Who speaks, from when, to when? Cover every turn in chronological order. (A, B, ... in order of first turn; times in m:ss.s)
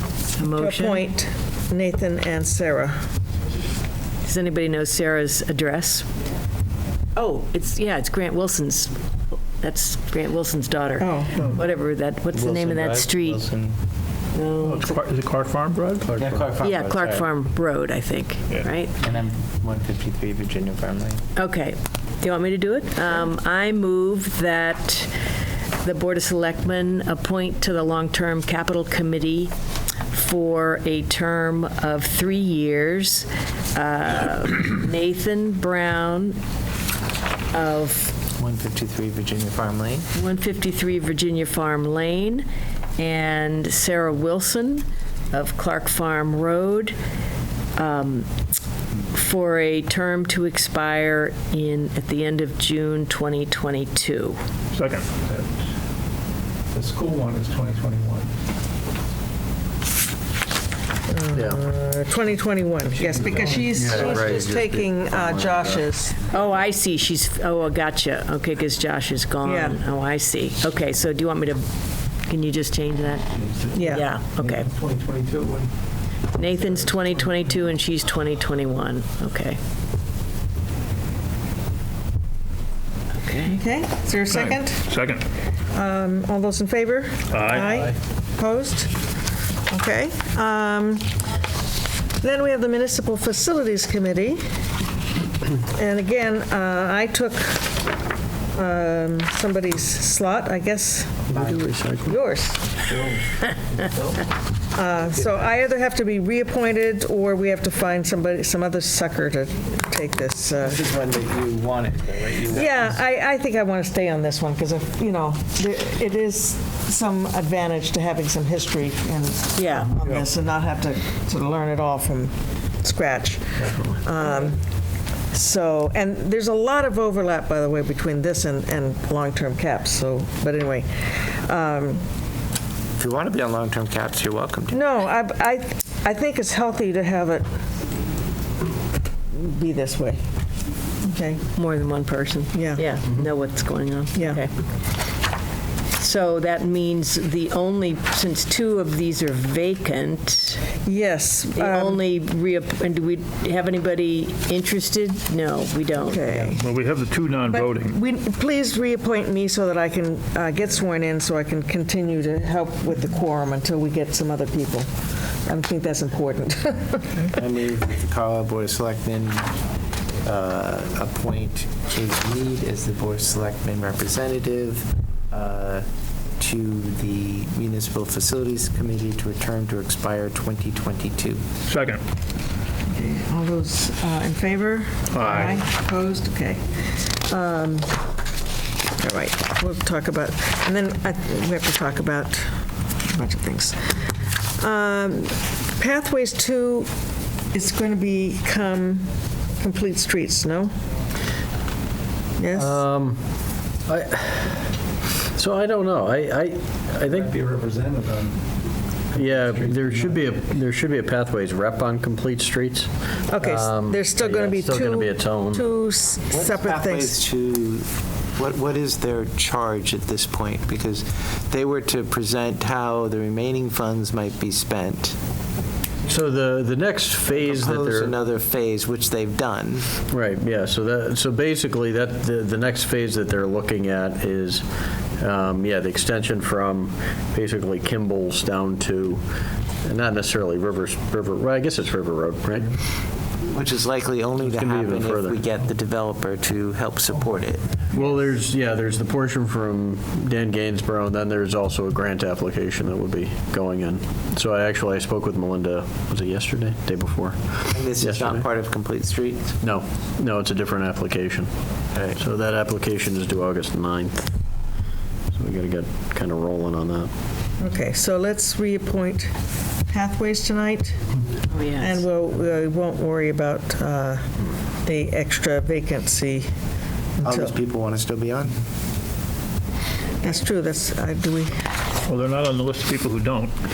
0:00.4-0:01.0 A
0:00.5-0:03.0 B
0:04.2-0:06.1 A
0:07.1-0:09.0 A
0:09.6-0:13.4 A
0:11.0-0:11.5 B
0:12.3-0:13.8 C
0:14.3-0:15.0 A
0:14.6-0:16.2 D
0:16.0-0:16.5 E
0:16.2-0:17.3 C
0:16.6-0:18.9 A
0:19.0-0:21.2 C
0:21.3-0:25.1 A
0:25.8-0:29.5 A
0:30.1-0:36.4 A
0:37.5-0:38.1 A
0:38.4-0:40.0 C
0:40.1-0:42.4 A
0:43.0-0:47.0 A
0:47.8-0:48.3 A
0:49.1-0:54.4 A
0:54.7-0:55.1 D
0:56.7-0:58.3 F
1:01.1-1:06.2 B
1:01.3-1:01.6 E
1:03.5-1:04.1 F
1:03.6-1:05.9 E
1:06.3-1:11.7 A
1:09.4-1:09.8 B
1:12.2-1:14.7 A
1:13.4-1:13.7 F
1:13.7-1:14.0 B
1:14.4-1:15.7 F
1:16.3-1:19.6 A
1:23.2-1:23.6 A
1:23.5-1:24.8 B
1:24.3-1:25.2 D
1:25.7-1:28.9 B
1:27.3-1:27.9 D
1:29.7-1:31.1 B
1:32.2-1:34.4 B
1:35.5-1:37.8 B
1:38.5-1:41.2 B
1:41.3-1:42.2 E
1:42.0-1:42.7 B
1:43.7-1:44.2 F
1:44.7-1:51.0 B
1:50.6-1:53.0 C
1:52.4-2:04.6 B
1:59.5-2:00.1 A
2:05.3-2:12.0 B
2:13.0-2:14.8 C
2:14.7-2:17.5 B
2:19.3-2:20.2 B
2:21.0-2:21.4 B
2:21.5-2:24.5 A
2:22.5-2:22.8 B
2:24.1-2:24.4 B
2:26.0-2:30.6 A
2:30.8-2:32.0 B
2:31.5-2:36.3 A
2:36.0-2:36.6 B
2:36.5-2:38.0 D
2:37.5-2:44.9 B
2:45.4-2:47.3 B
2:47.3-2:49.5 C
2:50.2-2:55.9 C
2:56.4-3:01.4 C
3:01.7-3:02.0 D
3:02.9-3:08.0 B
3:05.1-3:05.6 D
3:09.0-3:16.9 B
3:17.5-3:20.7 B
3:22.4-3:22.8 B
3:22.5-3:23.2 E
3:23.9-3:24.8 E
3:25.3-3:27.4 E
3:27.0-3:28.4 F
3:29.1-3:30.1 F
3:29.1-3:35.7 E
3:33.3-3:37.2 B
3:36.3-3:45.2 C
3:46.1-3:48.1 E
3:47.3-3:49.9 C
3:50.1-3:54.6 E
3:55.2-3:59.2 E
3:59.8-4:02.7 E
4:03.5-4:07.8 C
4:04.4-4:05.4 E
4:07.9-4:18.5 E
4:17.7-4:19.5 C
4:19.6-4:24.3 E
4:21.9-4:22.2 C
4:25.3-4:27.1 E
4:27.6-4:29.3 B
4:29.9-4:31.1 B
4:31.5-4:32.0 A
4:31.8-4:34.3 B
4:34.8-4:36.5 B
4:37.2-4:37.6 B
4:37.2-4:38.6 C
4:40.2-4:41.6 B
4:42.1-4:43.5 D